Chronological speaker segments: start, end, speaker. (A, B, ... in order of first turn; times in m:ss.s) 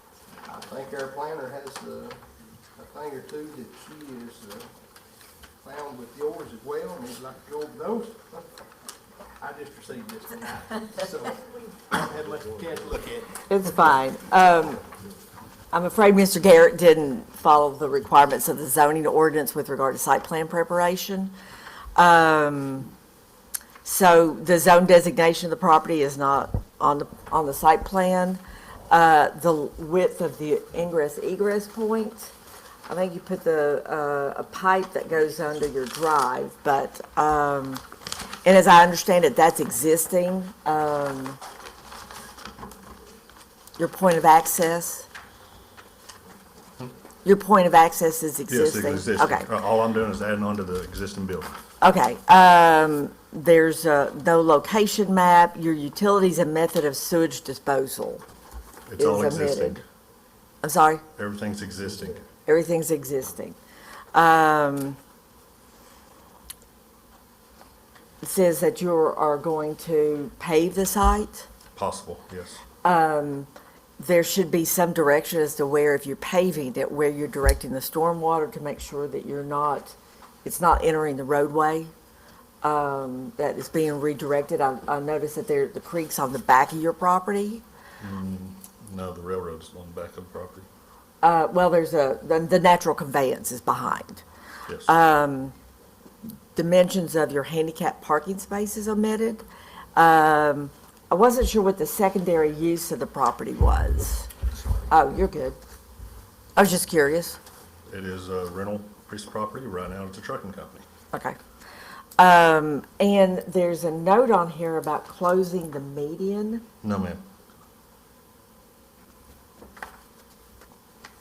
0:00.5-0:02.2 A
0:02.8-0:04.7 A
0:05.6-0:08.5 A
0:09.4-0:13.8 A
0:13.5-0:14.8 B
0:15.7-0:21.3 B
0:22.0-0:22.9 B
0:23.8-0:32.3 B
0:32.9-0:37.8 B
0:38.4-0:41.4 B
0:43.8-0:45.1 B
0:47.2-0:49.5 B
0:48.5-0:51.6 C
0:51.8-0:58.2 B
0:58.9-0:59.8 C
0:59.0-0:59.8 B
1:00.6-1:01.0 B
1:01.2-1:02.2 C
1:02.5-1:03.6 B
1:04.1-1:05.0 B
1:08.2-1:11.5 B
1:11.8-1:12.6 C
1:12.8-1:21.9 B
1:22.6-1:27.6 B
1:28.0-1:30.7 C
1:31.2-1:34.2 B
1:34.9-1:35.6 B
1:36.6-1:39.4 B
1:40.0-1:44.3 B
1:44.9-1:45.6 B
1:46.6-1:47.4 B
1:47.9-1:50.9 C
1:51.1-1:51.4 B
1:52.2-1:56.6 B
1:56.8-1:57.2 C